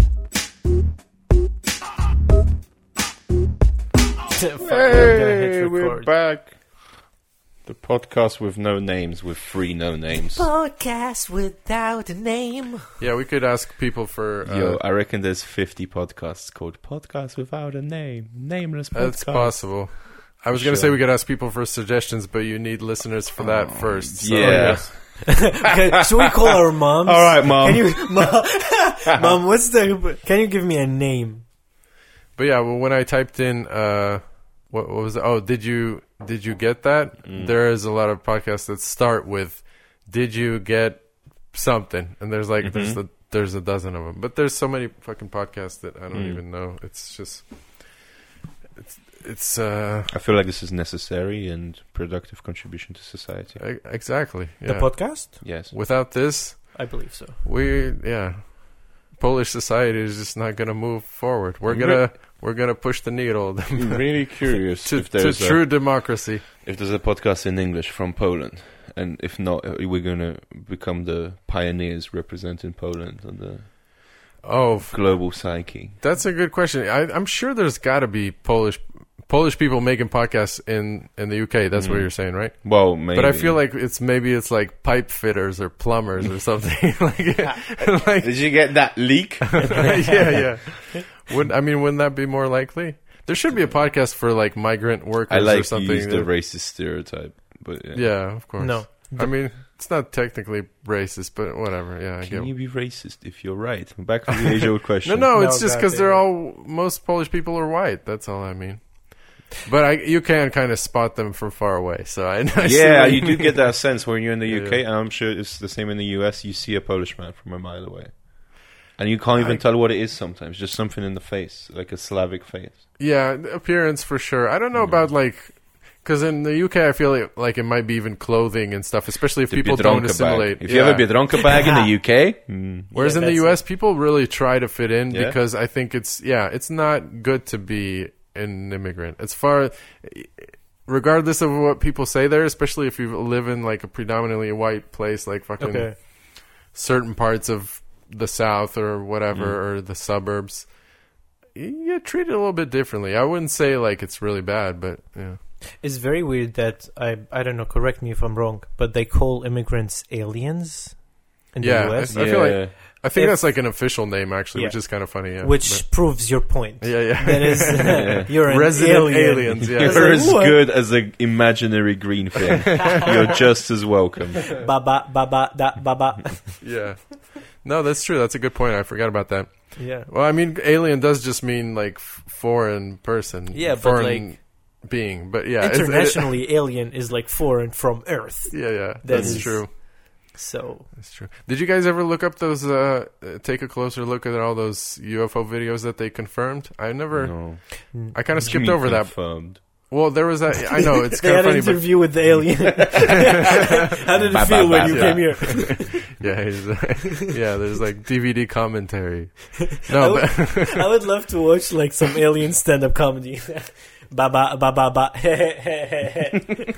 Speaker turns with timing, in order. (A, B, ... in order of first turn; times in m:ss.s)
0:04.3-0:06.1 A
0:04.6-0:07.0 B
0:07.6-0:10.5 B
0:10.3-0:13.0 A
0:13.0-0:14.8 C
0:14.4-0:20.0 B
0:18.9-0:25.0 C
0:20.5-0:21.0 B
0:23.4-0:25.6 B
0:24.4-0:31.4 A
0:27.0-0:28.4 B
0:32.4-0:48.1 C
0:37.2-0:37.6 B
0:42.6-0:43.0 B
0:46.1-0:46.4 B
0:48.8-0:50.1 C
0:50.1-0:53.6 B
0:53.6-1:06.4 C
0:54.6-0:55.3 A
0:55.4-0:55.7 B
0:56.7-0:57.4 A
1:01.7-1:02.1 B
1:03.7-1:14.4 B
1:14.4-1:36.3 C
1:14.9-1:16.0 B
1:21.8-1:23.6 B
1:28.2-1:30.5 B
1:35.3-1:38.6 B
1:37.9-1:42.5 C
1:38.6-1:39.4 A
1:42.2-1:45.3 B
1:45.0-1:54.8 C
1:45.3-1:46.2 A
1:52.6-2:02.9 B
2:03.0-2:11.5 C
2:04.7-2:05.1 B
2:09.5-2:12.9 B
2:11.4-2:11.9 A
2:12.9-2:35.4 C
2:12.9-2:13.6 A
2:15.1-2:15.4 B
2:25.6-2:26.0 A
2:29.3-2:29.6 B
2:35.8-2:44.0 A
2:41.6-2:50.2 C
2:42.1-2:42.8 B
2:44.5-2:50.6 A
2:49.7-2:54.6 B
2:52.6-2:53.2 C
2:54.6-2:56.6 A
2:56.6-3:06.4 C
2:59.8-3:00.1 A
3:03.5-3:04.4 A
3:05.6-3:10.9 A
3:08.5-3:09.7 C
3:09.1-3:09.6 B
3:11.0-3:22.9 C
3:17.1-3:19.8 B
3:17.9-3:18.4 A
3:20.8-3:26.0 A
3:22.3-3:23.3 B
3:24.2-3:25.8 B
3:24.8-3:31.0 C
3:29.8-3:36.6 A